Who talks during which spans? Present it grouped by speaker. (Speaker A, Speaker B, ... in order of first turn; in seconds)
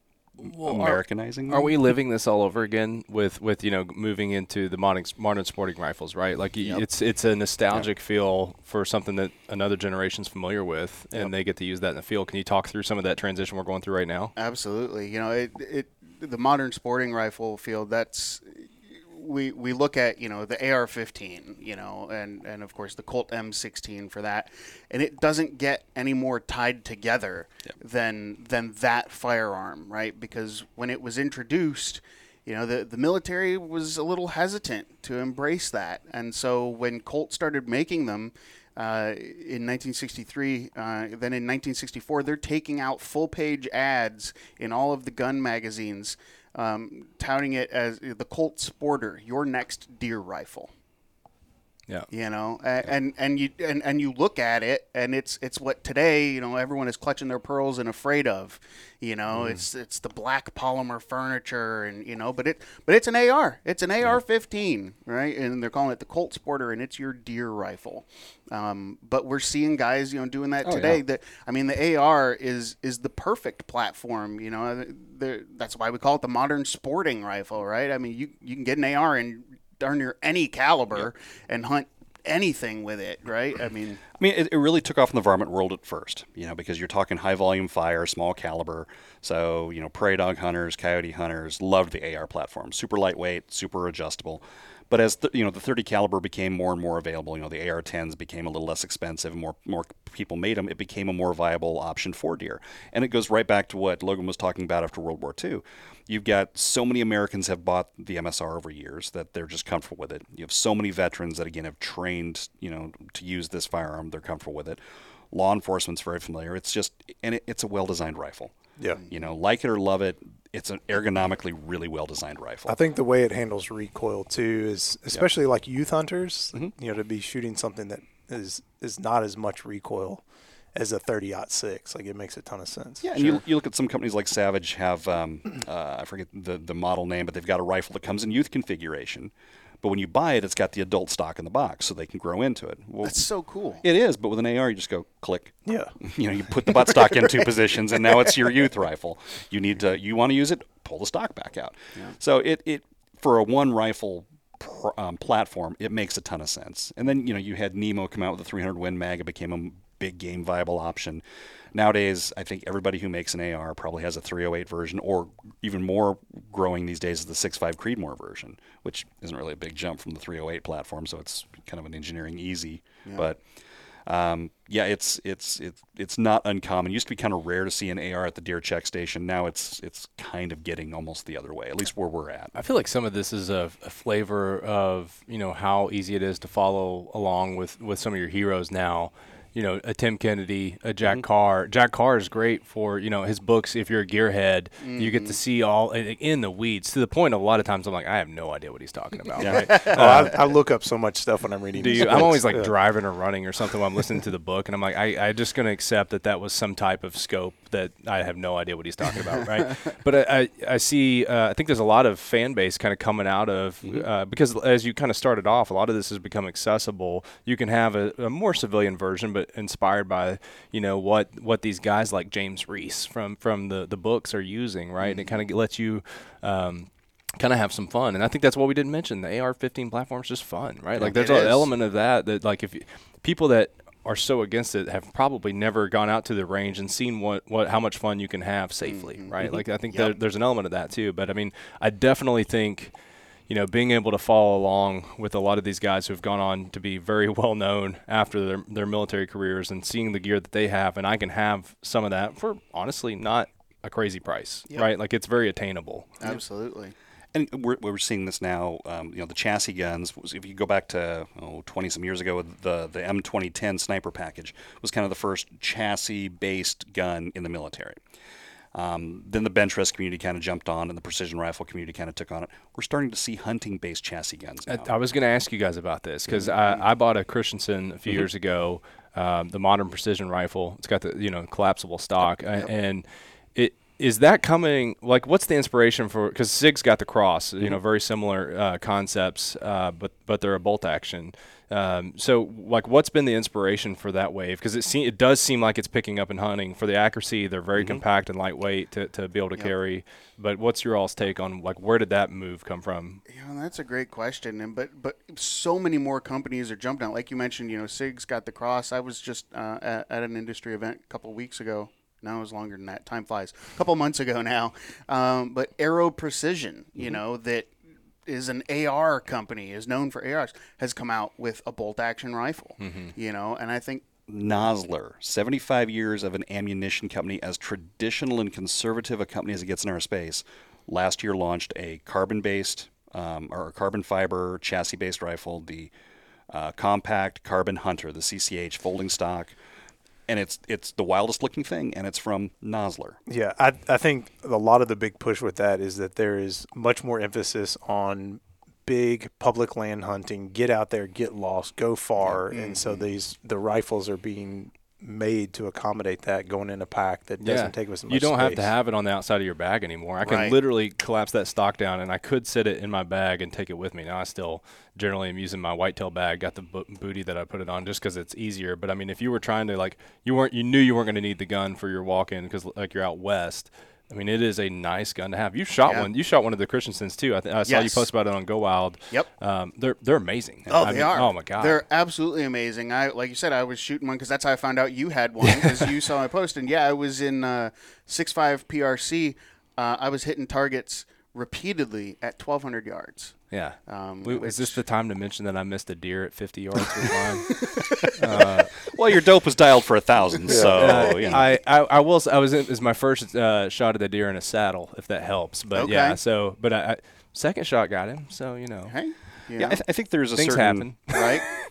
Speaker A: 0.4-1.8, 70.6-71.0, 84.2-118.5, 119.1-122.8, 133.0-143.2, 143.8-173.4, 174.1-182.5, 199.4-199.7, 257.3-268.0, 268.7-274.9, 297.8-298.0, 324.3-335.9, 336.5-339.6, 340.3-343.2, 398.8-401.4, 409.6-411.4
Speaker B: 0.4-14.3, 182.5-200.4, 201.8-242.9, 243.5-256.2, 274.6-303.2, 322.8-323.1, 357.4-381.8, 393.5-398.8, 400.7-408.9, 410.3-411.5
Speaker C: 14.3-50.7, 52.1-84.0, 143.0-143.8, 146.9-147.3, 194.8-195.4, 199.4-200.2, 225.0-225.3, 231.1-231.7, 238.8-239.3, 239.9-240.1, 256.2-256.9, 303.3-317.7, 318.2-324.0, 352.5-353.1, 360.2-360.6, 377.6-378.1, 380.7-394.8, 397.5-398.1, 400.5-401.4, 405.7-406.2, 408.9-409.8, 411.1-411.4
Speaker D: 118.8-119.0, 122.7-133.3, 145.7-145.9, 199.7-202.7, 343.3-358.7, 400.5-401.0